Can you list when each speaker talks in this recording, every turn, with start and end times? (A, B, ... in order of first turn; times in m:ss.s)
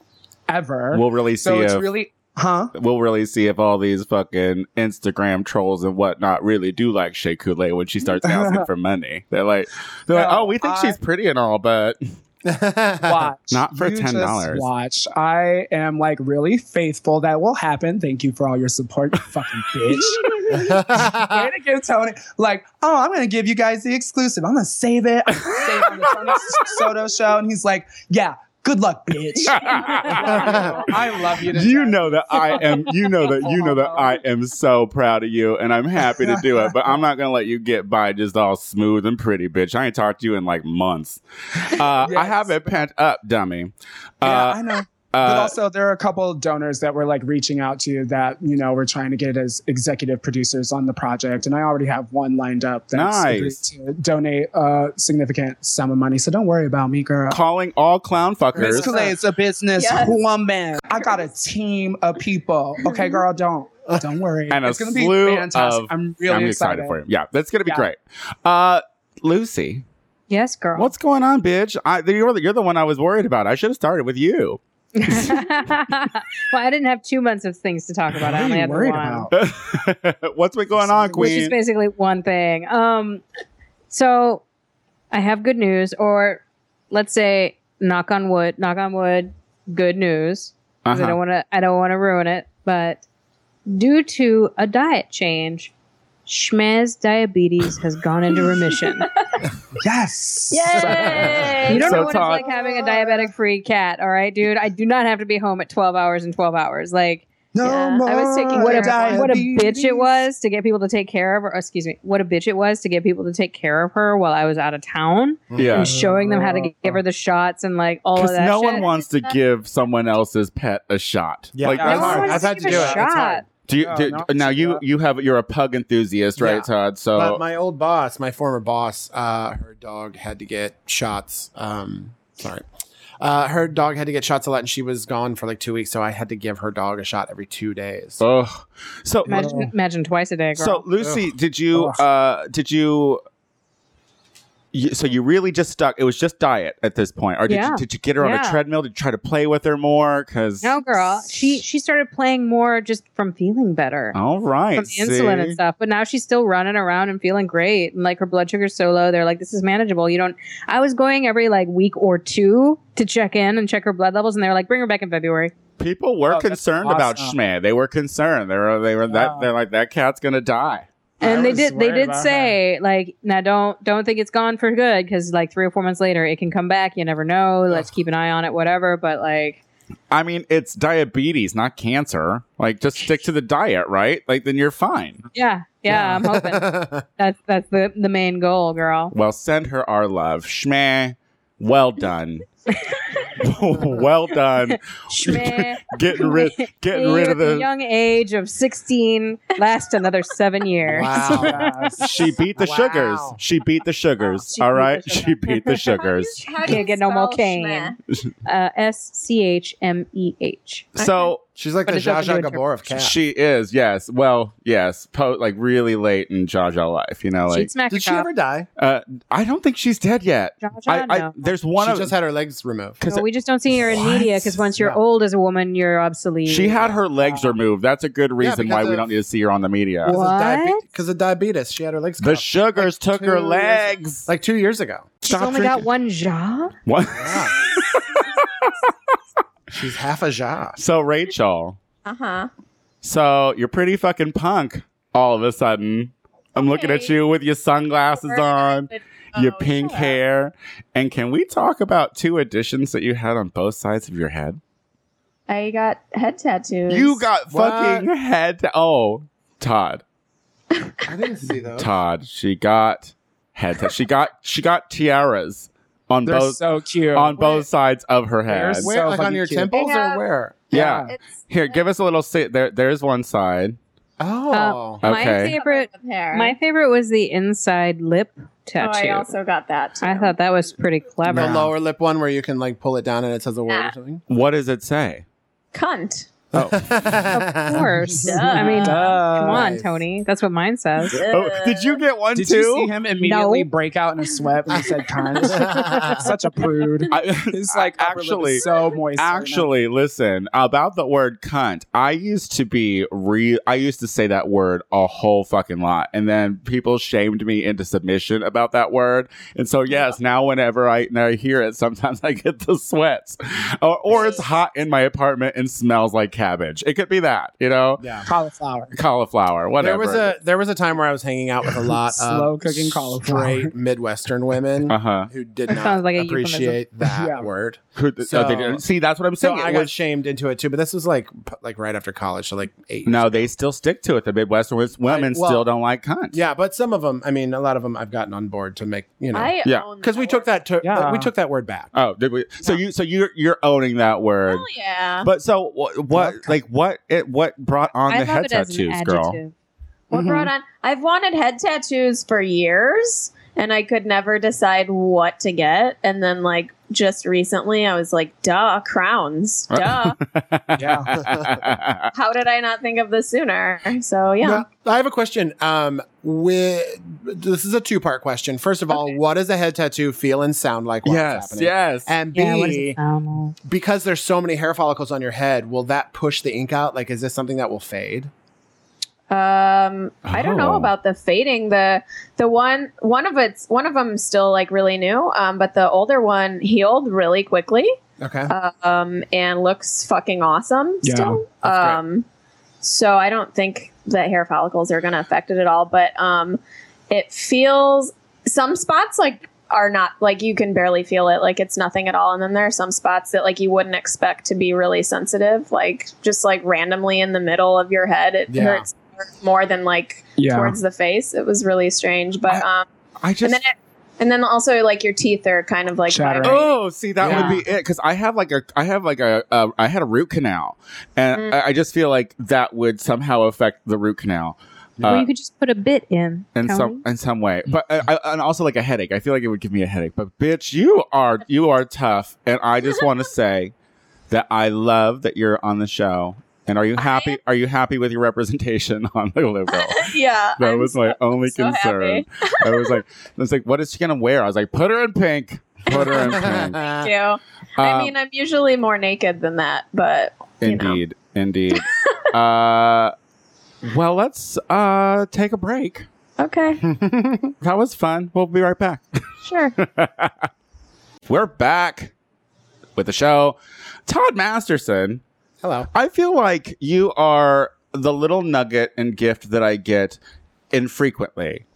0:00.5-0:02.7 A
0:00.9-0:01.9 B
0:02.8-0:12.0 B
0:08.2-0:08.7 A
0:10.1-0:11.0 A
0:12.4-0:13.3 C
0:13.0-0:34.2 A
0:13.5-0:14.7 B
0:20.2-0:20.7 D
0:20.5-0:21.5 C
0:25.6-0:26.6 B
0:29.3-0:30.9 D
0:29.5-0:45.5 B
0:30.2-0:30.9 C
0:36.1-0:36.8 A
0:41.8-0:42.8 A
0:44.2-0:57.4 A
0:52.9-0:53.6 B
0:57.3-0:59.0 B
0:58.5-0:59.0 C
0:58.6-1:07.0 A
0:59.8-1:00.2 D
1:02.8-1:03.2 D
1:04.5-1:09.8 B
1:10.3-1:10.9 E
1:10.8-1:14.6 B
1:15.0-1:19.3 E
1:18.1-1:19.3 A
1:19.3-1:21.5 B
1:20.8-1:21.5 A
1:21.2-1:23.2 E
1:23.9-1:24.4 E
1:25.1-1:33.0 E
1:30.8-1:31.2 B
1:33.7-1:35.7 E
1:36.2-1:39.1 E
1:39.8-1:41.9 A
1:40.5-1:43.0 D
1:40.8-1:41.6 C
1:41.6-1:47.3 E
1:41.7-1:42.4 B
1:47.5-1:50.2 A
1:47.6-1:49.1 D
1:48.6-1:58.8 E
1:55.5-1:55.9 C
1:55.6-1:56.0 B
1:55.8-1:57.0 A
1:58.2-2:02.4 B
1:58.8-1:59.4 D
2:01.5-2:03.3 C
2:01.7-2:04.8 A
2:01.8-2:03.4 E
2:03.7-2:07.4 B
2:06.4-2:12.6 C
2:13.2-2:18.2 C
2:18.2-2:19.5 B
2:19.3-2:19.7 A
2:19.3-2:20.8 E
2:20.6-2:23.2 B
2:21.7-2:22.0 A
2:24.7-2:31.4 B
2:27.5-2:28.6 E
2:30.6-2:34.2 E
2:34.1-2:35.6 B
2:34.8-2:45.5 E
2:45.8-2:50.9 B
2:46.3-2:47.4 A
2:49.1-2:49.5 A
2:51.2-2:52.6 A
2:51.2-2:59.6 E
3:00.1-3:05.2 B
3:05.3-3:09.1 E
3:05.9-3:06.2 A
3:05.9-3:07.0 C
3:09.1-3:12.4 B
3:13.4-3:17.7 B
3:14.7-3:21.9 E
3:20.8-3:23.4 C
3:21.3-3:22.1 A
3:22.0-3:26.8 B
3:24.4-3:26.0 E
3:25.9-3:28.0 D
3:26.6-3:30.9 E
3:30.9-3:31.4 B
3:31.0-3:31.3 D
3:31.6-3:33.2 C
3:31.9-3:32.6 E
3:32.9-3:37.7 B
3:37.5-3:38.3 E
3:37.9-3:38.7 C
3:38.8-3:42.1 B
3:40.6-3:41.3 E
3:41.8-3:43.0 C
3:43.0-3:43.2 B
3:43.1-3:46.8 E
3:44.0-3:45.0 C
3:46.4-3:50.2 B
3:46.8-3:47.0 C
3:48.4-3:49.1 C
3:50.0-3:55.1 C
3:50.1-3:50.8 E
3:52.2-3:54.3 B
3:55.2-3:56.7 E
3:55.2-3:55.9 B
3:56.9-3:58.9 B
3:57.1-3:57.5 C
3:59.7-4:00.8 C
4:00.8-4:01.8 B
4:02.0-4:02.5 D
4:03.0-4:14.6 B
4:06.6-4:07.1 D
4:08.1-4:10.2 D
4:15.5-4:17.3 D
4:16.9-4:20.0 B
4:17.5-4:18.1 C
4:20.7-4:21.1 D
4:21.0-4:21.9 C
4:21.8-4:28.9 B
4:26.2-4:27.4 A
4:27.4-4:27.6 D
4:28.5-4:29.7 A
4:28.8-4:30.7 C
4:29.7-4:30.3 D
4:30.7-4:31.1 A
4:30.7-4:33.8 B
4:30.8-4:31.8 D
4:34.2-4:35.0 C
4:34.5-4:39.3 E
4:35.0-4:35.5 B
4:35.3-4:36.5 D
4:38.8-4:40.4 D
4:40.0-4:41.7 E
4:41.3-4:44.2 C
4:44.3-4:45.2 B
4:45.7-4:46.4 D
4:46.5-4:48.2 C
4:46.5-4:46.8 B
4:47.3-4:51.2 E
4:48.1-4:49.7 A
4:48.2-4:49.2 D
4:49.4-4:50.0 C
4:51.0-4:52.0 D
4:51.3-4:52.9 B
4:52.3-4:59.7 A
4:53.2-4:53.7 E
4:55.4-4:56.3 C
4:55.5-4:56.2 E
4:57.1-4:58.6 B
4:59.2-5:18.2 B
5:09.9-5:10.2 D
5:14.1-5:14.5 D
5:18.0-5:18.3 C
5:18.2-5:18.9 A
5:18.9-5:20.4 B
5:19.8-5:28.8 C
5:22.1-5:23.7 A
5:24.9-5:25.3 B
5:25.7-5:26.8 E
5:27.1-5:27.5 A
5:27.9-5:29.9 B
5:29.4-5:33.5 C
5:33.0-5:36.4 B
5:35.0-5:35.7 C
5:36.3-5:41.9 C
5:39.3-5:40.5 D
5:40.8-5:41.3 A
5:41.9-5:44.6 B
5:44.5-5:45.3 D
5:45.2-5:49.4 B
5:46.2-5:46.4 A
5:48.1-5:49.5 E
5:50.1-6:00.2 D
5:50.1-5:50.5 A
5:59.7-6:02.1 B
6:00.8-6:01.1 A
6:01.2-6:01.6 C
6:02.1-6:04.6 D
6:04.4-6:13.0 C
6:11.0-6:12.1 B
6:12.4-6:13.5 E
6:13.6-6:18.3 C
6:19.3-6:27.9 D
6:20.3-6:20.9 B
6:28.2-6:28.5 C
6:28.5-6:32.2 D
6:31.0-6:32.0 A
6:32.8-6:36.6 D
6:37.1-6:52.9 D
6:48.5-6:48.9 C
6:50.4-6:50.8 A
6:53.2-6:53.6 B
6:53.4-6:56.6 D
6:56.1-6:56.7 A
6:56.4-7:05.3 B
6:57.2-6:57.6 C
7:01.3-7:01.6 D
7:05.0-7:05.2 C
7:05.0-7:07.0 E
7:06.5-7:13.7 B
7:14.3-7:26.8 B
7:17.0-7:17.4 D
7:19.7-7:23.0 D
7:25.9-7:31.0 D
7:25.9-7:27.1 C
7:27.8-7:28.1 B
7:30.6-7:33.1 B
7:33.8-7:36.1 B
7:36.4-7:36.8 D
7:36.8-7:37.5 C
7:37.6-7:39.2 B
7:39.4-7:39.7 D
7:39.8-7:40.5 B
7:41.3-7:42.1 B
7:43.0-7:43.6 B
7:44.1-7:45.2 B
7:45.6-7:45.9 C
7:45.9-7:50.2 B
7:50.7-7:51.6 B